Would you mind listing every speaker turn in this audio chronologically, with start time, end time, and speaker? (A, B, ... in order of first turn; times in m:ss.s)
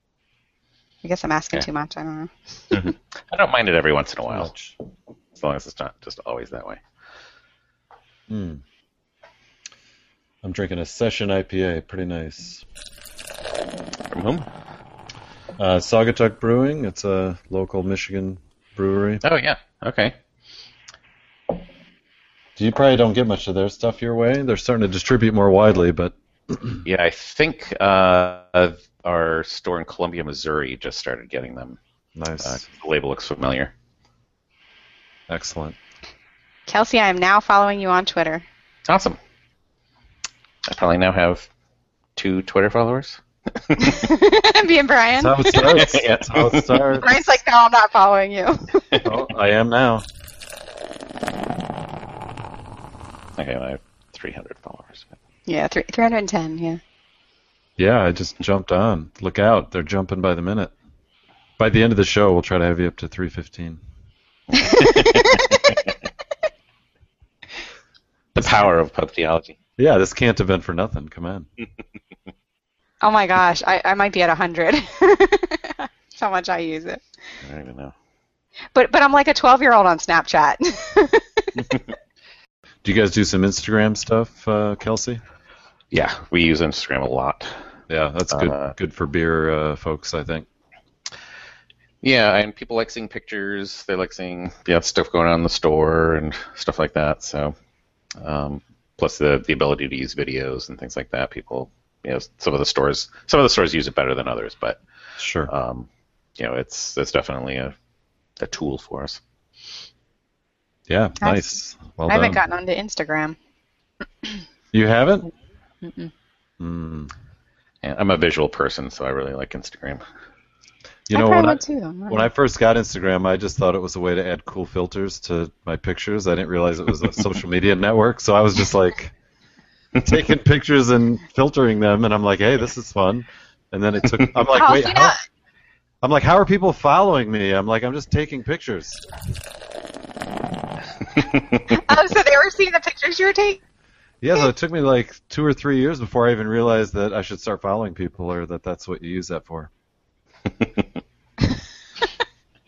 0:01.0-0:02.3 A
0:02.7-0:04.5 B
0:04.3-0:04.8 C
0:05.4-0:06.8 B
0:08.3-0:08.6 C
0:10.4-0:12.6 C
0:14.1-0:14.4 B
0:15.6-0:19.2 C
0:19.2-0:20.1 B
0:22.6-0:26.8 C
0:26.8-0:31.8 B
0:32.2-0:32.6 C
0:32.4-0:33.7 B
0:35.3-0:35.8 C
0:36.7-0:38.4 A
0:38.9-0:39.2 B
0:40.7-0:41.5 B
0:42.2-0:44.1 B
0:43.8-0:45.8 A
0:45.1-0:47.1 C
0:45.5-0:46.9 B
0:47.0-0:48.7 A
0:49.0-0:50.1 C
0:53.4-0:55.1 B
0:55.4-0:56.8 A
0:57.8-1:00.7 C
1:01.6-1:03.8 C
1:04.5-1:05.8 B
1:04.6-1:05.4 A
1:08.4-1:09.6 B
1:09.8-1:11.5 C
1:13.0-1:17.0 A
1:17.4-1:17.9 B
1:18.7-1:21.6 A
1:22.8-1:25.2 C
1:25.9-1:27.5 B
1:27.9-1:30.4 C
1:28.3-1:28.7 B
1:32.0-1:37.5 B
1:38.2-1:44.8 B
1:45.2-1:45.5 C
1:45.5-1:45.9 B
1:46.4-1:47.7 B
1:48.4-1:49.2 B
1:50.9-1:52.4 C
1:51.2-1:51.5 A
1:52.1-1:53.4 A
1:54.7-1:55.3 C
1:55.8-1:56.1 A
1:56.6-1:57.1 C
1:57.8-2:00.0 B
2:01.1-2:09.1 C
2:01.1-2:02.3 A
2:07.1-2:07.3 B
2:10.0-2:15.2 C
2:14.5-2:15.2 A
2:16.0-2:19.0 C
2:21.2-2:21.6 B
2:21.7-2:23.6 A
2:24.2-2:29.7 C
2:30.6-2:30.8 B
2:31.5-2:32.1 A